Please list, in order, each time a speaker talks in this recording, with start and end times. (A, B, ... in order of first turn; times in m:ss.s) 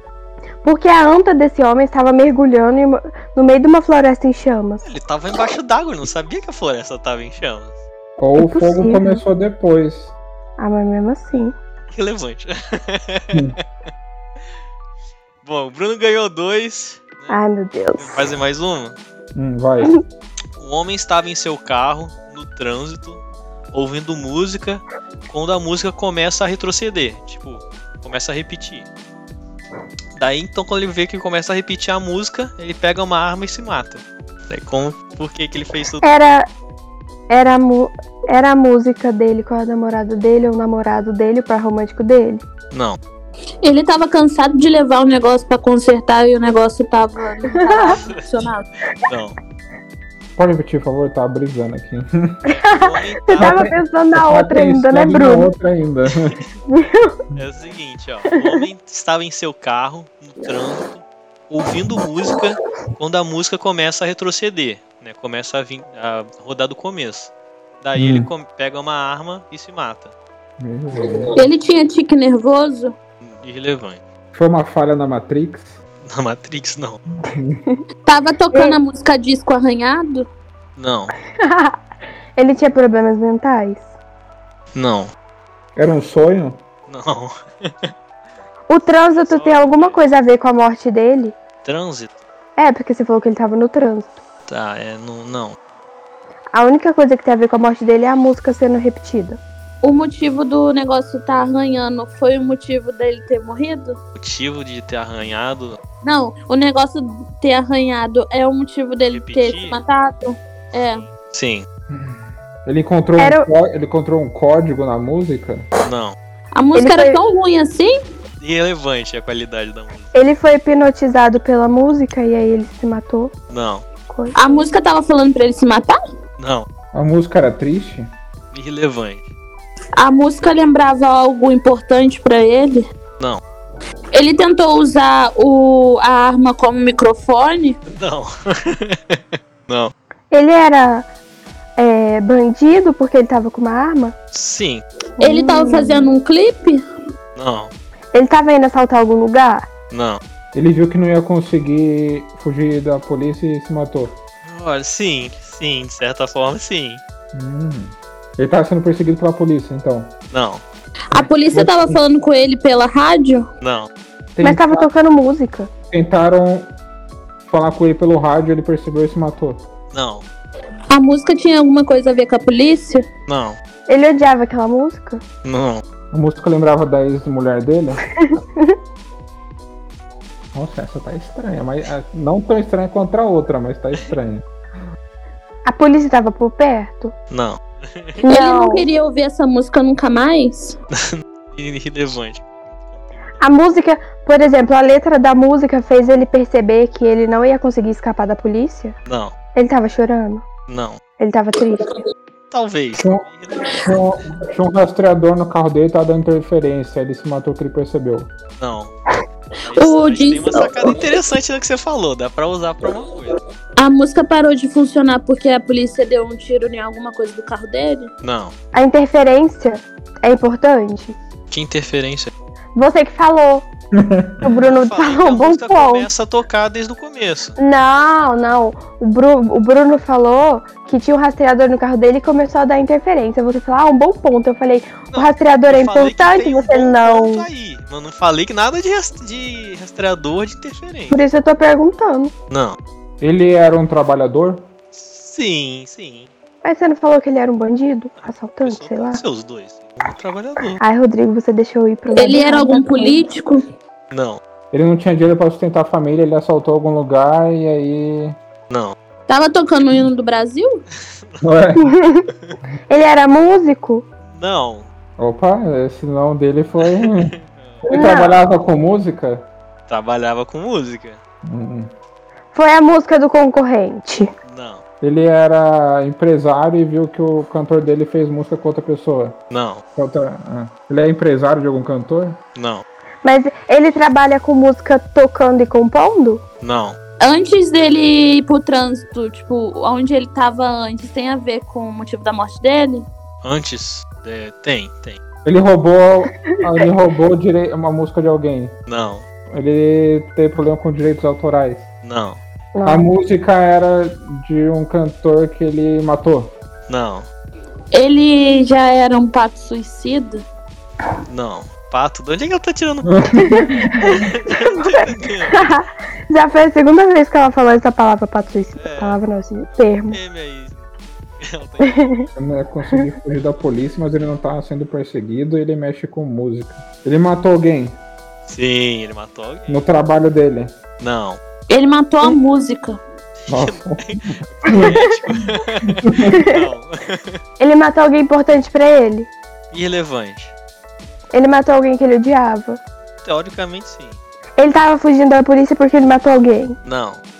0:00.6-0:04.8 A
0:04.8-0:07.8 B
0:08.2-0:10.2 C
0:08.4-0:09.2 A
0:10.6-0:11.5 A
0:11.9-0:13.6 B
0:15.4-0:17.4 B
0:17.3-0:18.2 A
0:18.0-0:19.0 B
0:19.4-0:19.9 C
0:20.6-0:23.2 B
0:23.7-0:28.9 B
0:30.2-0:36.1 B
0:36.0-0:36.5 A
0:37.3-0:42.4 A
0:42.7-0:43.0 B
0:43.6-0:48.7 D
0:47.6-0:48.0 A
0:47.9-0:48.2 B
0:49.1-0:49.4 B
0:50.4-0:52.4 C
0:52.5-0:55.5 A
0:52.7-0:53.6 B
0:53.4-0:56.4 C
0:56.7-0:57.2 A
0:57.4-1:10.1 B
1:08.0-1:08.3 C
1:10.6-1:11.3 C
1:11.4-1:13.0 D
1:13.2-1:14.0 B
1:14.3-1:15.8 C
1:16.0-1:17.0 B
1:17.3-1:17.6 C
1:18.1-1:20.3 D
1:18.5-1:18.8 A
1:20.8-1:21.1 B
1:21.4-1:21.8 A
1:22.4-1:23.9 A
1:24.8-1:25.1 B
1:25.8-1:26.6 C
1:26.9-1:27.9 B
1:28.7-1:31.4 A
1:29.1-1:30.0 B
1:31.6-1:32.2 B
1:32.6-1:34.2 A
1:34.5-1:35.6 B
1:36.5-1:39.4 A
1:39.8-1:44.0 D
1:44.2-1:45.8 B
1:46.0-1:51.1 D
1:49.1-1:49.8 B
1:51.0-1:51.6 B
1:51.9-1:55.7 C
1:53.2-1:53.5 A
1:55.8-1:56.2 B
1:56.6-1:58.0 D
1:56.7-1:57.2 A
1:58.4-2:00.1 B
2:00.1-2:03.3 A
2:03.5-2:03.8 B
2:04.1-2:04.4 A
2:04.4-2:06.0 D
2:06.4-2:06.6 B
2:06.9-2:08.1 C
2:08.5-2:09.3 B
2:10.0-2:12.9 D
2:14.1-2:17.8 D
2:17.9-2:19.9 B
2:20.3-2:21.1 A
2:21.8-2:24.1 A
2:24.3-2:24.8 B
2:25.2-2:26.1 A
2:25.2-2:26.8 D
2:27.4-2:27.7 B
2:28.1-2:29.7 A
2:29.9-2:30.2 B
2:30.5-2:34.2 C
2:34.4-2:37.0 B
2:37.3-2:40.1 C
2:40.3-2:40.6 B
2:41.1-2:43.5 D
2:41.1-2:42.0 C
2:43.6-2:43.9 B
2:44.4-2:44.9 C
2:44.4-2:45.7 A
2:45.9-2:46.7 C
2:47.5-2:49.6 C
2:49.9-2:50.2 B
2:50.9-2:53.1 D
2:53.3-2:53.6 B
2:53.9-2:55.2 A
2:55.4-2:55.8 B
2:56.1-2:58.0 C
2:58.3-2:58.7 A
3:00.5-3:04.4 C
3:05.6-3:07.1 A
3:07.3-3:08.2 B
3:08.2-3:10.8 D
3:08.2-3:08.9 A
3:10.9-3:13.4 B
3:13.4-3:19.0 A
3:19.1-3:19.3 B
3:19.6-3:20.4 A
3:20.7-3:21.0 B
3:21.2-3:21.8 A
3:22.5-3:23.8 B
3:23.0-3:23.2 C
3:23.8-3:28.3 C
3:28.6-3:28.9 B
3:29.6-3:33.4 B
3:29.8-3:31.0 D
3:33.8-3:38.1 D
3:38.2-3:38.5 B
3:38.7-3:41.2 A
3:41.5-3:42.3 B
3:42.8-3:43.7 A
3:43.9-3:44.5 C
3:44.4-3:46.1 A
3:44.6-3:47.6 B
3:47.6-3:57.5 A
3:55.1-4:01.2 B
4:01.1-4:02.3 A
4:02.5-4:02.8 B
4:03.2-4:04.7 C
4:04.9-4:06.3 B
4:06.6-4:09.2 A
4:08.2-4:10.8 B
4:10.8-4:13.2 A
4:12.2-4:13.6 D
4:14.1-4:14.4 B
4:14.7-4:18.4 C
4:18.7-4:19.0 B
4:19.3-4:20.8 D
4:21.1-4:21.4 B
4:21.4-4:21.9 C
4:21.8-4:22.3 A
4:22.9-4:24.0 A
4:24.3-4:24.9 B
4:25.2-4:29.5 C
4:26.8-4:27.8 B
4:27.9-4:28.4 A
4:29.9-4:31.2 B
4:31.4-4:31.9 C
4:32.5-4:34.3 A
4:34.4-4:34.8 B
4:35.0-4:39.4 C
4:39.5-4:39.8 B
4:40.0-4:42.4 C
4:42.6-4:42.8 B
4:43.2-4:46.4 A
4:46.6-4:47.0 B
4:47.2-4:53.1 D
4:53.4-4:55.2 B
4:55.4-4:58.8 C
4:58.9-4:59.2 B
4:59.5-5:01.9 C
5:02.0-5:02.4 B
5:02.8-5:03.1 A
5:02.8-5:06.6 C
5:06.9-5:07.3 B
5:07.9-5:10.4 D
5:11.3-5:13.4 B
5:13.0-5:14.2 C
5:13.4-5:20.2 A
5:14.0-5:15.8 B
5:18.8-5:20.9 B
5:21.4-5:22.3 B
5:21.8-5:22.3 A
5:22.4-5:28.0 C
5:28.4-5:29.8 B
5:29.7-5:30.7 C
5:31.0-5:31.4 B
5:31.7-5:33.0 D
5:33.4-5:37.4 B
5:33.5-5:34.9 C
5:34.7-5:35.1 A
5:35.8-5:36.4 C
5:36.3-5:36.6 A
5:37.6-5:39.3 A
5:39.7-5:40.5 B
5:41.3-5:42.8 A
5:43.2-5:44.2 B
5:44.6-5:46.8 A
5:46.9-5:47.2 B